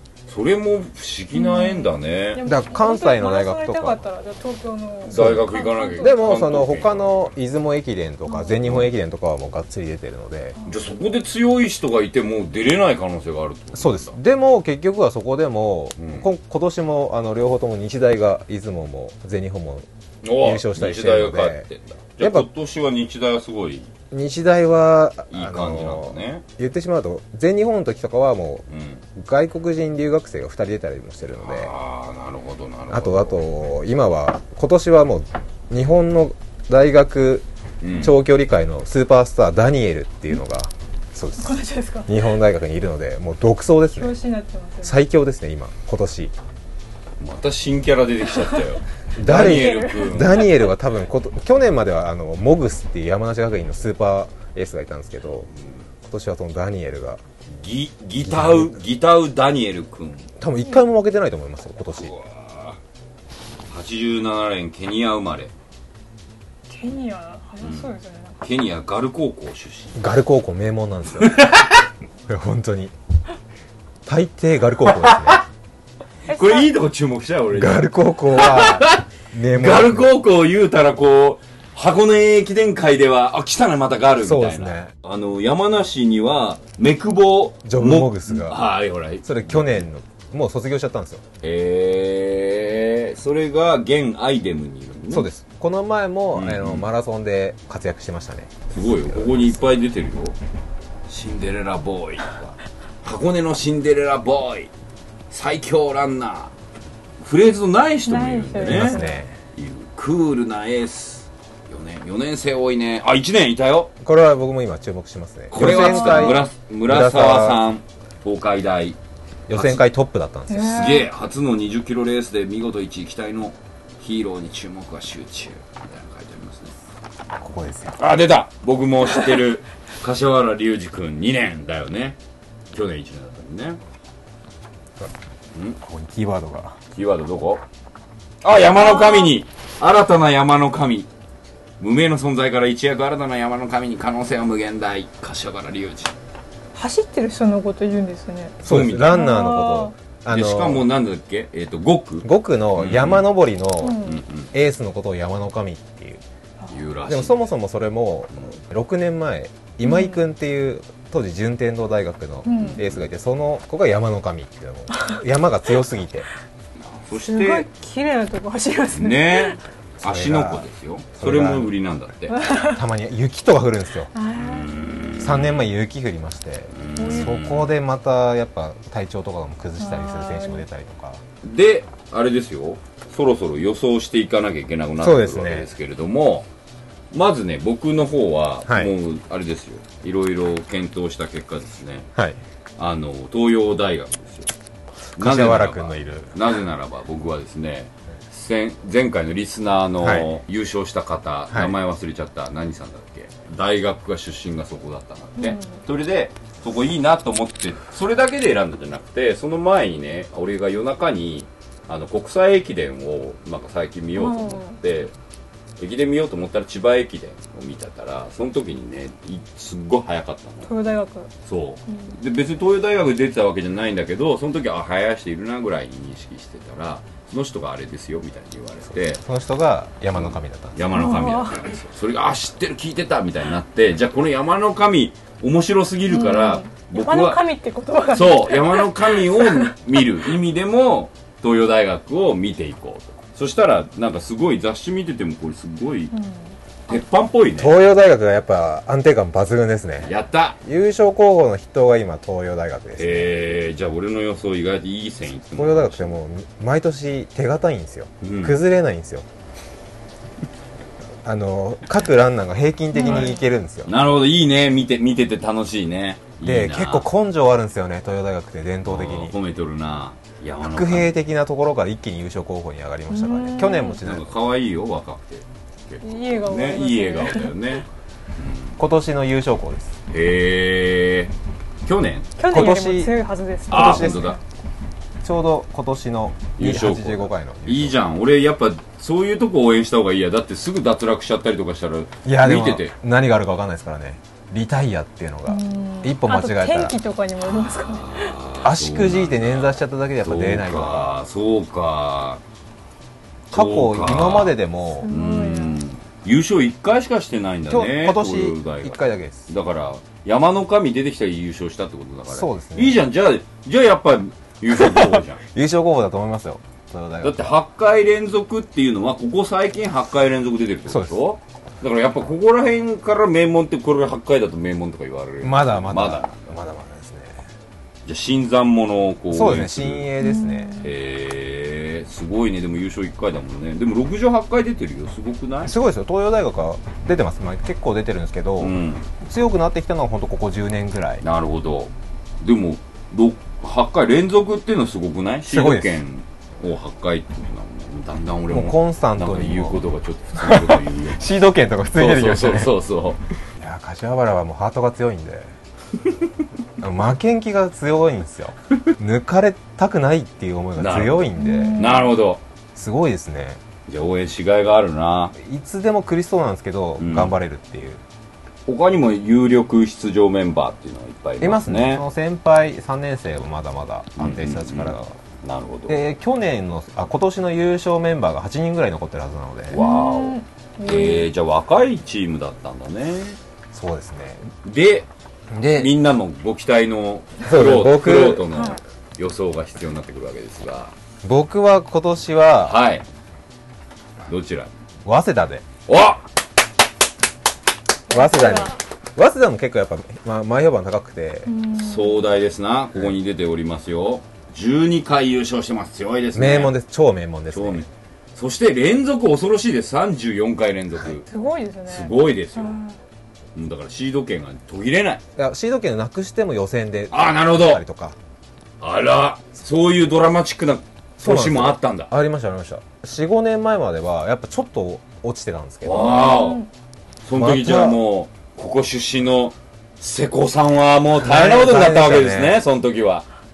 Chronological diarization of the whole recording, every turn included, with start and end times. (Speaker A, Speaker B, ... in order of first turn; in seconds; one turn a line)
Speaker A: 0.3-2.4
Speaker B: 1.3-6.3
Speaker C: 2.4-4.0
Speaker A: 5.0-7.3
Speaker C: 5.1-10.6
Speaker B: 8.3-8.5
Speaker A: 8.6-8.9
Speaker A: 10.7-14.2
Speaker C: 13.7-21.7
Speaker A: 16.0-16.3
Speaker A: 20.2-23.9
Speaker C: 22.2-22.5
Speaker C: 24.1-31.7
Speaker A: 25.3-26.4
Speaker A: 28.7-29.0
Speaker A: 31.4-33.4
Speaker C: 32.9-44.2
Speaker A: 37.8-38.2
Speaker B: 41.4-42.2
Speaker B: 43.9-45.0
Speaker C: 44.8-46.3
Speaker A: 47.2-50.5
Speaker C: 49.2-55.5
Speaker B: 49.2-50.5
Speaker C: 56.0-57.2
Speaker A: 57.5-60.3
Speaker C: 58.3-58.8
Speaker C: 60.4-62.1
Speaker A: 61.9-62.8
Speaker A: 63.7-65.5
Speaker B: 66.7-68.4
Speaker A: 67.6-70.1
Speaker C: 70.0-71.5
Speaker A: 71.2-71.8
Speaker C: 72.3-72.9
Speaker C: 74.0-75.4
Speaker A: 74.9-75.4
Speaker B: 76.3-76.7
Speaker A: 76.3-89.9
Speaker C: 77.5-80.1
Speaker C: 84.2-84.9
Speaker C: 87.6-88.6
Speaker C: 89.2-91.2
Speaker A: 91.4-95.3
Speaker C: 95.1-99.6
Speaker A: 96.3-96.9
Speaker A: 98.7-100.4
Speaker A: 101.1-104.7
Speaker A: 105.3-106.5
Speaker A: 107.2-113.9
Speaker B: 108.1-109.2
Speaker C: 108.6-109.4
Speaker C: 114.0-117.6
Speaker A: 115.5-119.0
Speaker B: 115.6-116.4
Speaker C: 119.5-120.8
Speaker A: 119.5-119.8
Speaker B: 120.5-121.1
Speaker A: 120.5-126.7
Speaker C: 127.4-128.0
Speaker A: 128.0-132.2
Speaker A: 132.7-133.8
Speaker C: 135.8-136.8
Speaker A: 136.9-137.6
Speaker A: 138.4-141.1
Speaker B: 138.8-139.3
Speaker A: 141.8-146.1
Speaker B: 146.7-149.9
Speaker A: 148.6-149.2
Speaker C: 148.6-150.9
Speaker A: 150.3-153.3
Speaker C: 152.2-156.2
Speaker B: 153.8-154.2
Speaker A: 154.0-154.5
Speaker A: 156.7-157.4
Speaker C: 157.1-166.3
Speaker B: 159.8-160.2
Speaker B: 162.4-162.8
Speaker A: 162.5-163.0
Speaker A: 166.8-167.7
Speaker B: 167.1-169.6
Speaker A: 168.9-172.4
Speaker C: 170.0-171.7
Speaker B: 172.3-172.8
Speaker C: 172.6-174.1
Speaker B: 174.1-175.2
Speaker A: 174.3-175.7
Speaker C: 175.2-181.2
Speaker A: 176.7-177.7
Speaker B: 176.9-177.4
Speaker B: 179.8-180.6
Speaker A: 181.4-186.5
Speaker C: 185.0-185.7
Speaker A: 187.1-192.1
Speaker C: 188.7-188.9
Speaker A: 192.8-194.5
Speaker C: 195.2-196.3
Speaker A: 195.2-215.1
Speaker C: 200.0-200.3
Speaker C: 201.5-201.8
Speaker B: 205.4-205.8
Speaker B: 214.2-214.8
Speaker A: 215.8-220.7
Speaker B: 220.6-221.3
Speaker A: 221.4-229.2
Speaker C: 228.9-230.9
Speaker A: 230.1-237.4
Speaker B: 230.9-231.7
Speaker B: 236.1-239.7
Speaker A: 238.1-246.1
Speaker B: 246.1-247.0
Speaker A: 246.9-247.8
Speaker C: 247.6-253.6
Speaker A: 250.0-250.6
Speaker A: 253.0-256.2
Speaker C: 255.6-259.3
Speaker A: 258.2-258.6
Speaker C: 261.2-263.9
Speaker B: 262.9-263.4
Speaker A: 263.0-263.3
Speaker A: 263.9-267.1
Speaker C: 266.4-269.4
Speaker A: 268.9-271.1
Speaker C: 270.6-274.3
Speaker B: 273.1-274.0
Speaker A: 274.0-277.9
Speaker B: 276.0-277.5
Speaker A: 278.4-278.8
Speaker C: 278.8-279.9
Speaker A: 280.1-281.3
Speaker A: 281.9-282.3
Speaker B: 282.4-284.4
Speaker C: 282.5-283.1
Speaker C: 283.7-284.4
Speaker A: 283.7-284.4
Speaker C: 285.2-287.9
Speaker A: 286.5-292.9
Speaker C: 292.2-296.9
Speaker B: 295.5-298.4
Speaker A: 297.6-302.4
Speaker C: 298.6-301.2
Speaker A: 303.5-304.6
Speaker C: 303.5-305.1
Speaker B: 305.0-305.8
Speaker A: 305.1-315.4
Speaker C: 307.7-309.5
Speaker C: 312.3-313.0
Speaker C: 314.7-317.6
Speaker A: 317.2-326.4
Speaker C: 320.9-321.2
Speaker C: 325.4-327.5
Speaker A: 328.1-330.1
Speaker C: 329.3-330.9
Speaker B: 330.2-330.9
Speaker A: 330.8-335.7
Speaker C: 335.6-341.2
Speaker A: 338.6-339.1
Speaker A: 341.2-351.2
Speaker C: 345.5-346.0
Speaker C: 348.5-349.8
Speaker C: 350.4-352.7
Speaker A: 351.9-353.2
Speaker C: 353.6-355.5
Speaker C: 356.8-361.9
Speaker A: 360.8-362.4
Speaker B: 361.4-362.1
Speaker C: 362.7-363.6
Speaker A: 363.9-365.4
Speaker C: 365.4-368.0
Speaker A: 367.0-367.4
Speaker A: 368.7-372.0
Speaker C: 371.4-375.1
Speaker A: 374.2-376.0
Speaker C: 375.9-379.8
Speaker A: 379.7-383.4
Speaker B: 379.7-381.3
Speaker C: 383.7-384.4
Speaker A: 384.6-385.1
Speaker C: 385.5-385.9
Speaker A: 385.7-390.9
Speaker C: 387.4-388.5
Speaker B: 388.5-388.8
Speaker C: 391.2-392.8
Speaker A: 392.7-393.0
Speaker A: 394.3-394.7
Speaker C: 395.1-395.6
Speaker A: 395.9-396.2
Speaker B: 398.1-398.8
Speaker C: 398.1-401.5
Speaker B: 401.4-402.2
Speaker A: 401.8-406.7
Speaker C: 406.4-407.9
Speaker A: 407.5-411.3
Speaker B: 411.3-412.9
Speaker A: 411.9-412.8
Speaker A: 413.6-415.2
Speaker C: 415.4-418.2
Speaker A: 417.1-417.8
Speaker A: 418.8-422.1
Speaker C: 421.2-426.3
Speaker A: 425.8-426.6
Speaker B: 425.9-426.7
Speaker A: 427.2-433.2
Speaker C: 427.3-428.0
Speaker C: 431.2-432.6